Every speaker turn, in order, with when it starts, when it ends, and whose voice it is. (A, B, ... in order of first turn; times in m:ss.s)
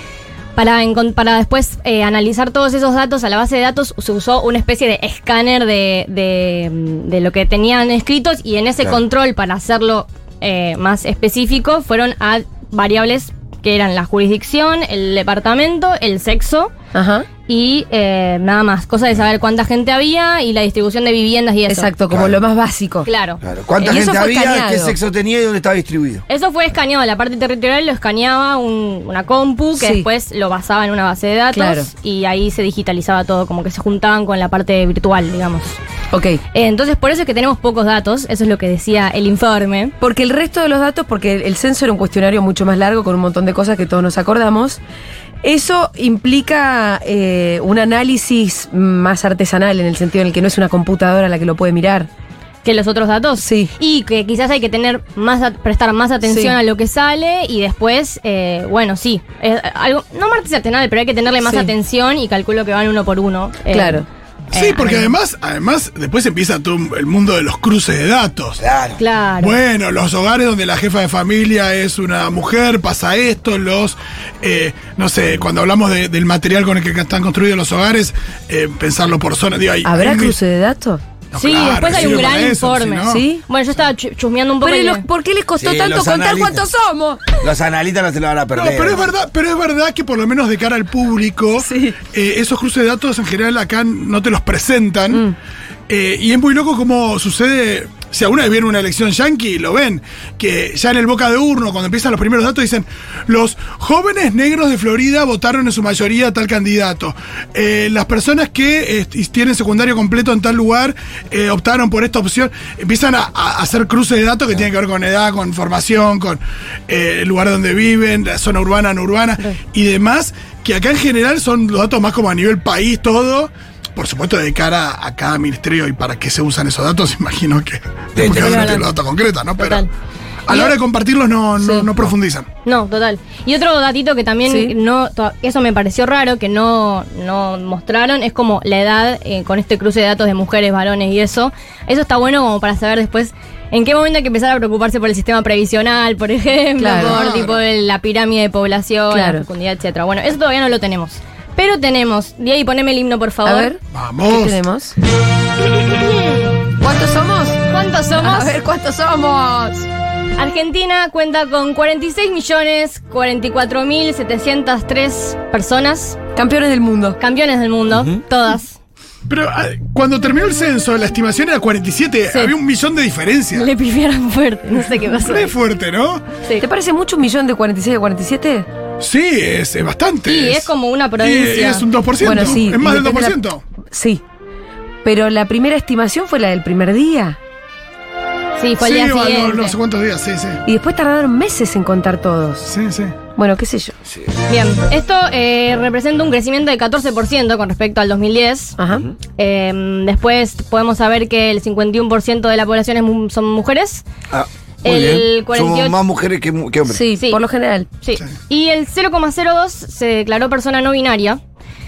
0:00.6-0:16.7 A
0:16.9-0:17.3 B
0:17.5-0:21.9 A
0:21.7-0:23.1 B
0:22.1-0:22.4 C
0:23.0-0:23.4 A
0:23.4-0:26.2 C
0:23.8-0:25.0 B
0:26.3-0:35.8 A
0:29.8-0:30.1 B
0:31.5-0:31.9 B
0:36.1-0:36.4 B
0:36.5-0:39.9 A
0:40.0-0:44.8 B
0:45.4-0:52.1 B
0:52.6-1:05.2 A
0:53.4-0:53.7 B
0:56.2-0:56.6 B
1:01.4-1:01.7 B
1:03.7-1:04.0 B
1:04.5-1:08.6 D
1:08.6-1:09.0 C
1:09.0-1:09.6 A
1:09.4-1:20.4 D
1:19.8-1:21.0 B
1:21.3-1:23.2 D
1:21.4-1:25.0 A
1:23.1-1:23.4 B
1:24.6-1:27.3 B
1:25.6-1:26.7 C
1:27.4-1:29.0 C
1:28.5-1:35.2 D
1:31.6-1:32.0 B
1:35.9-2:09.8 D
2:08.2-2:08.9 C
2:08.2-2:08.9 A
2:09.6-2:09.9 A
2:10.5-2:12.5 D
2:11.6-2:11.9 B
2:12.6-2:33.7 A
2:14.4-2:14.7 B
2:26.8-2:27.2 B
2:27.0-2:27.6 D
2:29.1-2:29.4 B
2:33.4-2:34.9 B
2:33.9-2:34.6 D
2:35.6-2:36.5 A
2:36.8-2:37.6 B
2:37.7-2:38.6 A
2:38.1-2:39.9 B
2:40.4-2:46.2 A
2:46.3-2:47.2 B
2:47.2-2:48.8 A
2:49.3-2:53.7 D
2:53.5-2:55.5 A
2:55.3-2:56.2 D
2:56.6-2:58.7 B
2:59.0-3:00.7 D
3:00.2-3:01.8 A
3:01.2-3:03.6 D
3:02.2-3:03.4 B
3:03.9-3:04.2 B
3:05.0-3:07.4 B
3:08.6-3:09.8 A
3:08.8-3:10.6 D
3:10.6-3:12.7 B
3:12.6-3:13.2 D
3:13.4-3:13.9 B
3:14.5-3:18.8 A
3:18.8-3:19.0 B
3:19.4-3:24.0 A
3:24.3-3:27.0 C
3:24.8-3:26.0 A
3:26.8-3:27.9 B
3:27.1-3:27.4 A
3:28.0-3:31.4 A